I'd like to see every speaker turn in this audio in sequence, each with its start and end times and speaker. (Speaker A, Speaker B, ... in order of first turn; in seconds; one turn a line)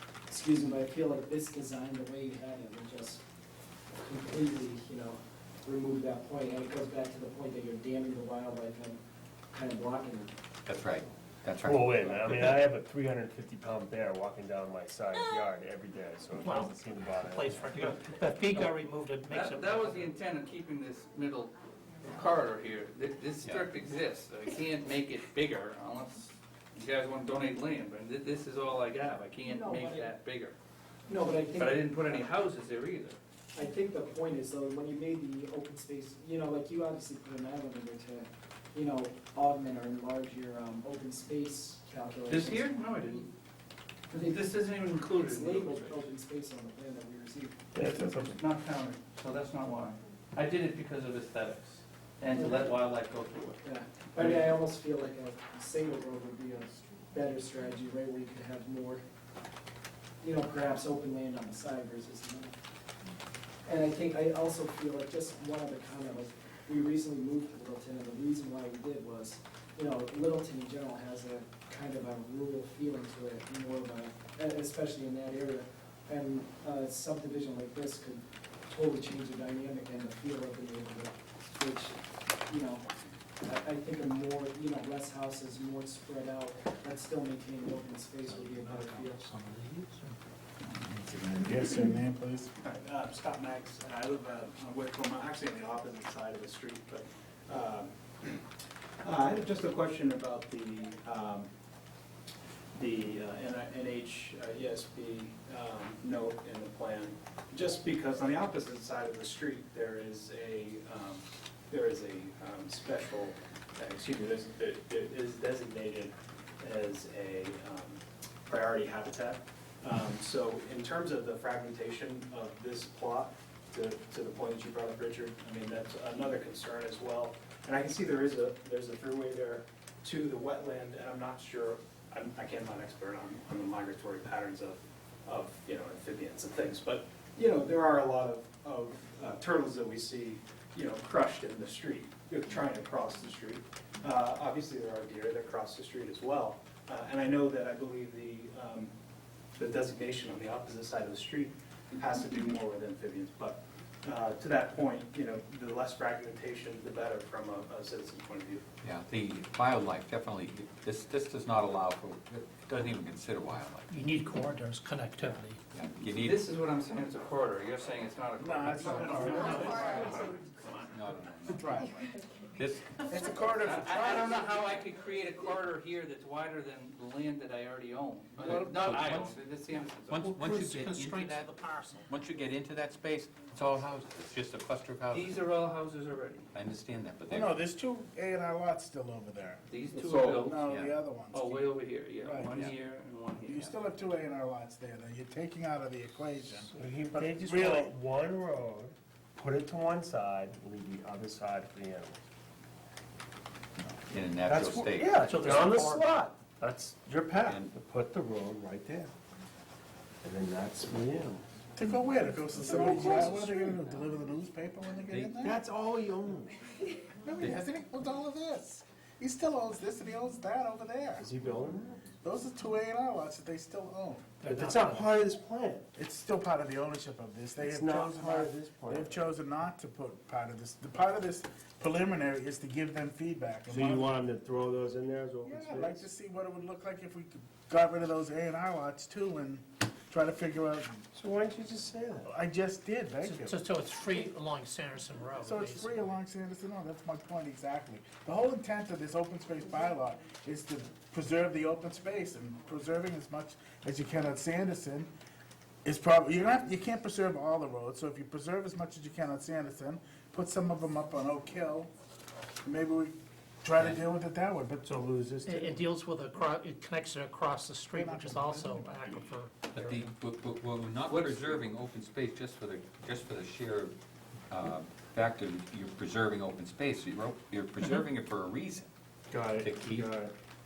Speaker A: 0.3-3.2
Speaker A: 3.9-9.0
Speaker A: 9.5-10.3
Speaker B: 10.7-12.5
Speaker C: 11.6-17.9
Speaker D: 16.4-20.1
Speaker E: 19.3-21.5
Speaker E: 22.1-30.6
Speaker A: 29.5-30.1
Speaker A: 31.1-32.2
Speaker E: 31.5-33.2
Speaker A: 33.5-42.6
Speaker E: 42.3-43.3
Speaker A: 44.1-44.5
Speaker E: 44.1-46.1
Speaker A: 45.1-47.6
Speaker F: 47.8-48.4
Speaker E: 48.1-53.6
Speaker A: 52.3-52.7
Speaker A: 53.6-59.0
Speaker E: 54.2-54.5
Speaker A: 60.2-62.6
Speaker A: 63.6-82.9
Speaker A: 83.4-89.4
Speaker F: 90.6-92.5
Speaker G: 92.6-98.4
Speaker G: 99.0-101.5
Speaker G: 102.7-148.9
Speaker G: 149.6-158.6
Speaker B: 158.8-163.9
Speaker D: 163.9-165.6
Speaker B: 165.7-166.4
Speaker E: 166.1-170.5
Speaker F: 168.4-170.3
Speaker D: 169.4-169.7
Speaker B: 170.9-171.7
Speaker F: 171.5-171.9
Speaker B: 172.6-173.0
Speaker F: 173.0-174.3
Speaker E: 173.6-180.9
Speaker F: 178.4-178.8
Speaker B: 178.5-179.4
Speaker B: 180.1-185.4
Speaker D: 180.3-182.1
Speaker E: 185.1-186.5
Speaker B: 186.5-187.5
Speaker F: 187.3-191.7
Speaker E: 189.7-190.6
Speaker B: 190.1-190.9
Speaker E: 191.2-193.7
Speaker F: 192.2-192.7
Speaker B: 192.5-192.7
Speaker F: 193.5-197.9
Speaker C: 196.7-202.2
Speaker B: 203.8-205.8
Speaker C: 204.5-209.1
Speaker D: 205.2-206.0
Speaker B: 207.4-207.7
Speaker C: 210.2-211.4
Speaker F: 211.7-215.6
Speaker C: 212.6-213.5
Speaker B: 212.7-214.1
Speaker B: 215.1-215.4
Speaker C: 215.4-216.8
Speaker F: 217.2-221.3
Speaker C: 221.2-222.1
Speaker F: 222.2-224.3
Speaker D: 224.4-225.2
Speaker C: 224.5-225.9
Speaker F: 225.9-234.1
Speaker C: 227.6-229.2
Speaker C: 233.7-236.1
Speaker F: 235.4-241.0
Speaker C: 241.1-242.3
Speaker F: 242.2-243.6
Speaker D: 243.2-246.0
Speaker F: 245.4-255.1
Speaker F: 255.8-261.9
Speaker F: 262.6-264.9
Speaker C: 264.8-265.8
Speaker D: 265.4-270.1
Speaker F: 267.9-268.9
Speaker B: 269.7-273.9
Speaker E: 271.1-271.6
Speaker B: 274.5-278.9
Speaker C: 279.3-280.3
Speaker B: 279.6-280.1